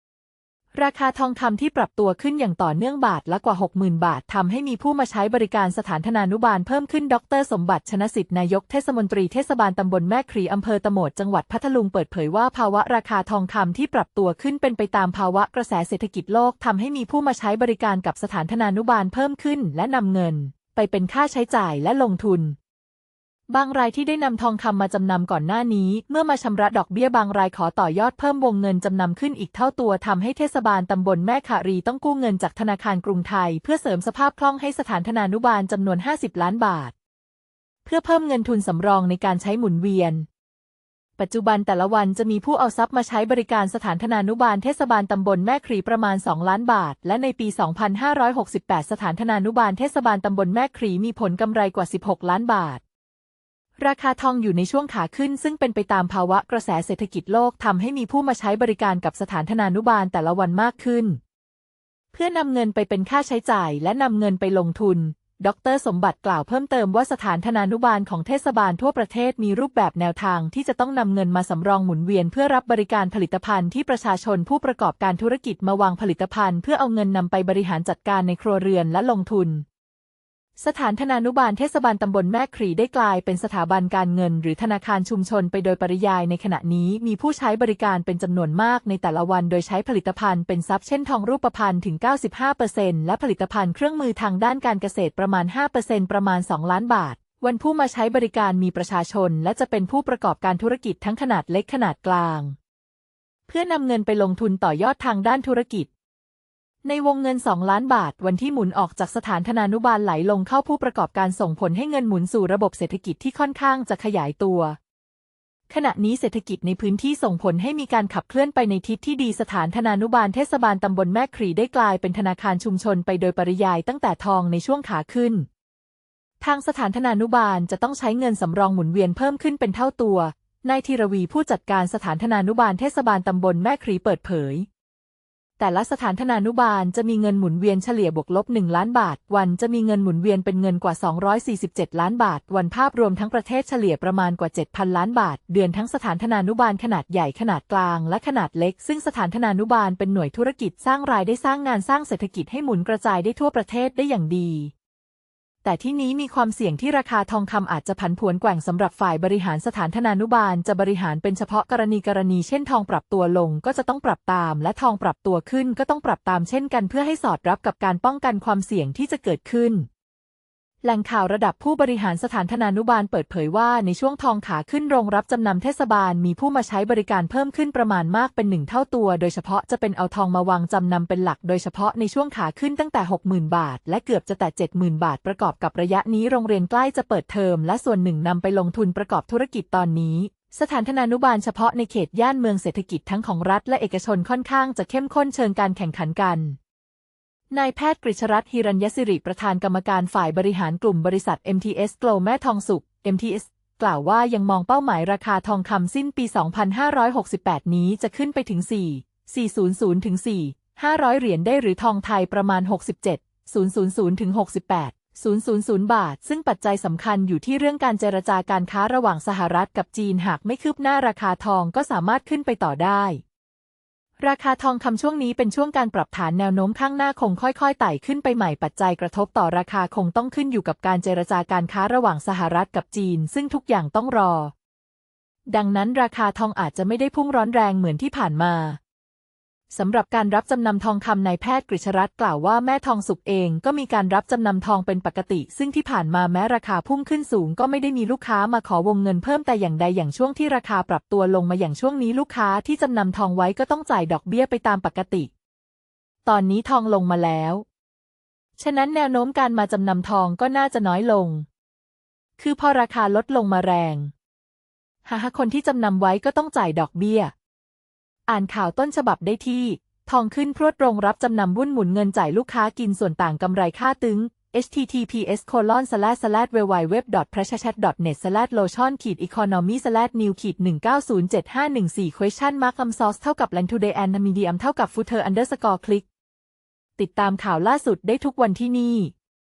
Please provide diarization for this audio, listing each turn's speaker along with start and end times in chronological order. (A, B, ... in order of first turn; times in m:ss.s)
0:00.7-0:22.6 A
0:23.5-0:36.9 A
0:37.8-0:40.2 A
0:41.2-0:52.8 A
0:53.8-1:01.2 A
1:02.1-1:19.6 A
1:20.6-1:42.5 A
1:43.5-1:45.9 A
1:46.8-1:54.8 A
1:55.7-2:05.5 A
2:06.4-2:14.7 A
2:15.6-2:34.7 A
2:35.6-2:49.9 A
2:50.8-3:16.6 A
3:17.5-3:43.2 A
3:44.2-3:54.5 A
3:55.5-3:58.8 A
3:59.7-4:15.3 A
4:16.2-4:17.6 A
4:18.6-4:21.4 A
4:22.4-4:24.1 A
4:25.0-4:27.3 A
4:28.3-4:46.0 A
4:47.0-4:49.1 A